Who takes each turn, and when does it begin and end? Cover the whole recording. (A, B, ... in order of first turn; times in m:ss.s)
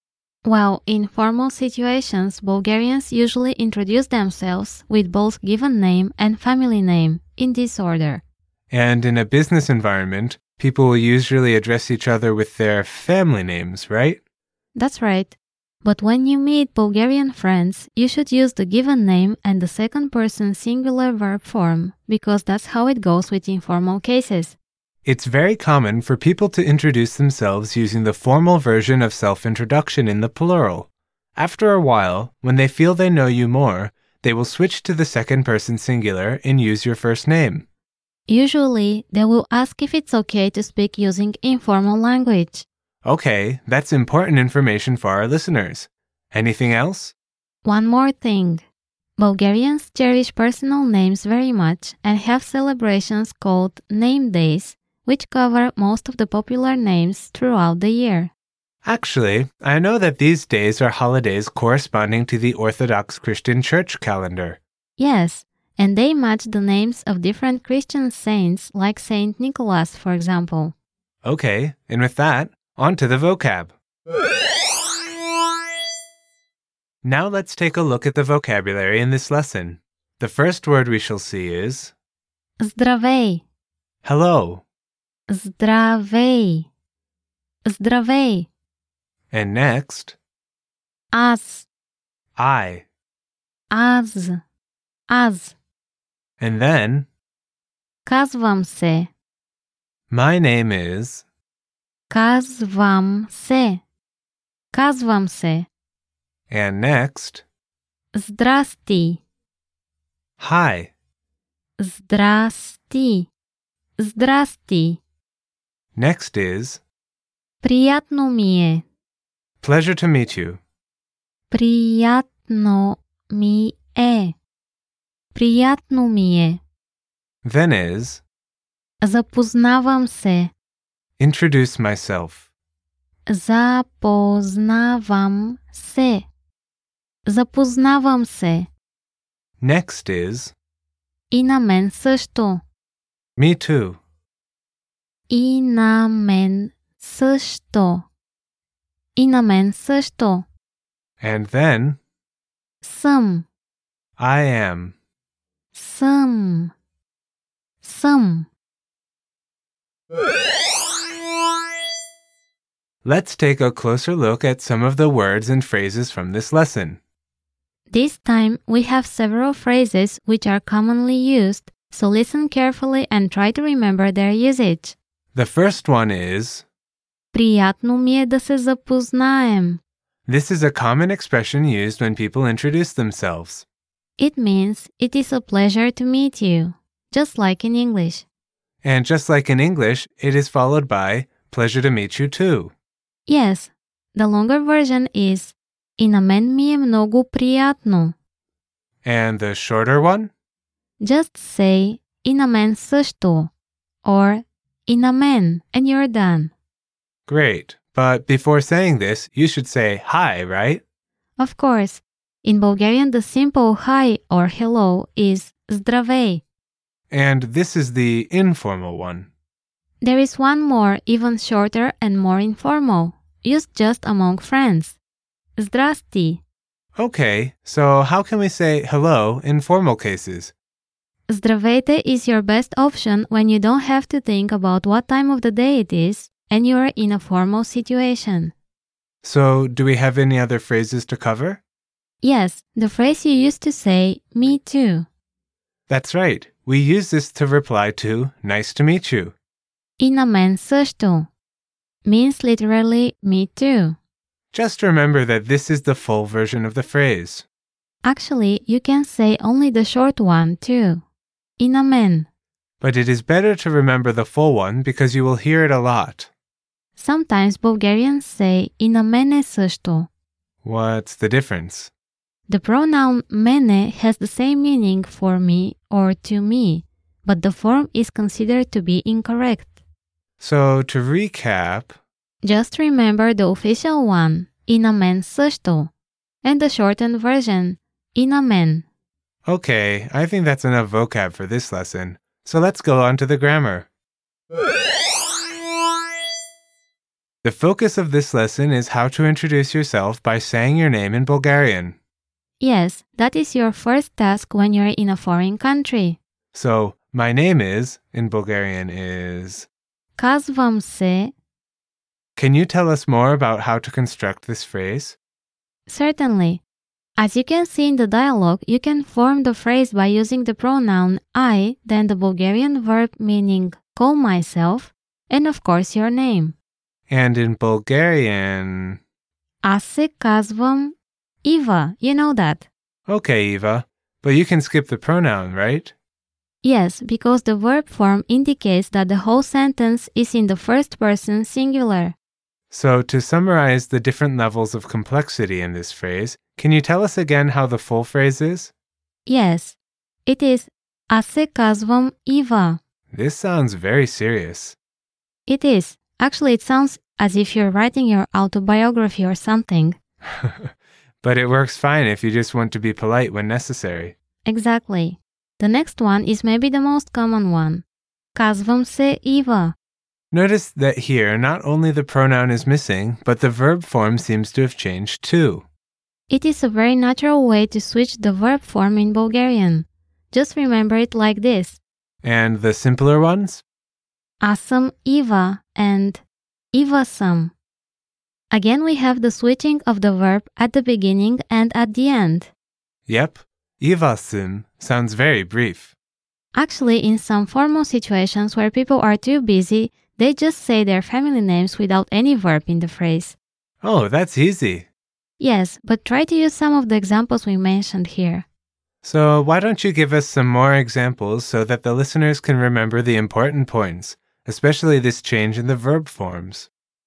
0:00.4-0:08.2 A
0:08.7-0:14.2 B
0:14.8-0:24.6 A
0:25.0-0:37.7 B
0:38.3-0:42.7 A
0:43.0-0:47.2 B
0:47.6-0:48.6 A
0:49.2-0:58.3 A
0:58.8-1:04.6 B
1:05.0-1:10.8 A
1:11.2-1:13.7 B
1:17.0-1:21.9 B
1:22.6-1:23.4 A
1:24.0-1:24.6 B
1:25.3-1:26.7 A
1:27.7-1:28.5 A
1:29.3-1:30.2 B
1:31.1-1:31.7 A
1:32.4-1:32.8 B
1:33.7-1:34.4 A
1:35.1-1:35.5 A
1:36.4-1:37.1 B
1:38.0-1:39.1 A
1:40.1-1:41.2 B
1:42.1-1:43.8 A
1:44.7-1:45.7 A
1:46.5-1:47.4 B
1:48.1-1:49.2 A
1:50.4-1:50.9 B
1:51.8-1:53.3 A
1:54.0-1:55.0 A
1:56.0-1:56.8 B
1:57.6-1:58.8 A
1:59.6-2:00.6 B
2:01.5-2:04.3 A
2:05.3-2:06.6 A
2:07.4-2:08.2 B
2:09.0-2:10.5 A
2:11.2-2:12.4 B
2:13.3-2:16.3 A
2:17.3-2:18.7 A
2:19.6-2:20.5 B
2:21.3-2:22.6 A
2:23.4-2:24.0 B
2:25.3-2:28.0 A
2:29.2-2:30.5 A
2:31.2-2:32.0 B
2:32.8-2:33.5 A
2:34.2-2:35.0 B
2:35.7-2:36.7 A
2:37.8-2:38.5 A
2:43.0-2:47.0 B
2:47.9-2:55.0 A
2:55.3-2:56.7 B
2:57.3-2:59.8 A
3:00.3-3:03.7 B
3:04.2-3:08.3 A
3:08.8-3:12.7 B
3:13.3-3:18.2 A
3:19.0-3:20.3 B
3:21.0-3:23.5 A
3:24.0-3:26.5 A
3:27.3-3:30.8 B
3:31.4-3:36.4 A
3:37.1-3:39.3 B
3:40.0-3:45.0 A
3:45.6-3:46.4 A
3:47.0-3:50.5 B
3:51.3-3:58.5 A
3:59.2-4:01.6 B
4:02.2-4:05.1 A
4:05.9-4:09.3 B
4:10.0-4:11.3 A
4:12.0-4:14.0 A
4:14.5-4:17.5 B
4:18.0-4:21.0 A
4:21.6-4:22.3 A
4:22.8-4:26.3 B
4:27.0-4:30.1 A
4:30.6-4:31.9 B
4:32.5-4:39.7 A
4:40.4-4:42.0 B
4:42.4-4:45.9 A
4:46.4-4:48.8 A
4:49.5-4:53.9 B
4:57.4-5:02.0 B
5:02.6-5:06.2 A
5:06.5-5:09.7 B
5:10.2-5:11.3 A
5:12.4-5:15.2 B
5:15.9-5:16.6 A
5:17.2-5:26.5 A
5:27.1-5:29.0 B
5:29.6-5:32.7 A
5:33.1-5:35.9 B
5:36.6-5:42.2 A
5:42.7-5:48.7 B
5:49.2-5:52.8 A
5:53.1-5:54.8 B
5:55.5-6:00.0 A
6:00.4-6:00.7 B
6:01.2-6:04.1 B
6:04.4-6:09.8 A
6:10.3-6:15.6 B
6:16.3-6:21.8 A
6:22.2-6:23.6 B
6:24.4-6:27.5 A
6:28.5-6:32.5 A
6:33.1-6:35.9 B
6:36.5-6:43.4 A
6:43.8-6:44.9 B
6:45.4-6:48.4 A
6:49.0-6:56.7 B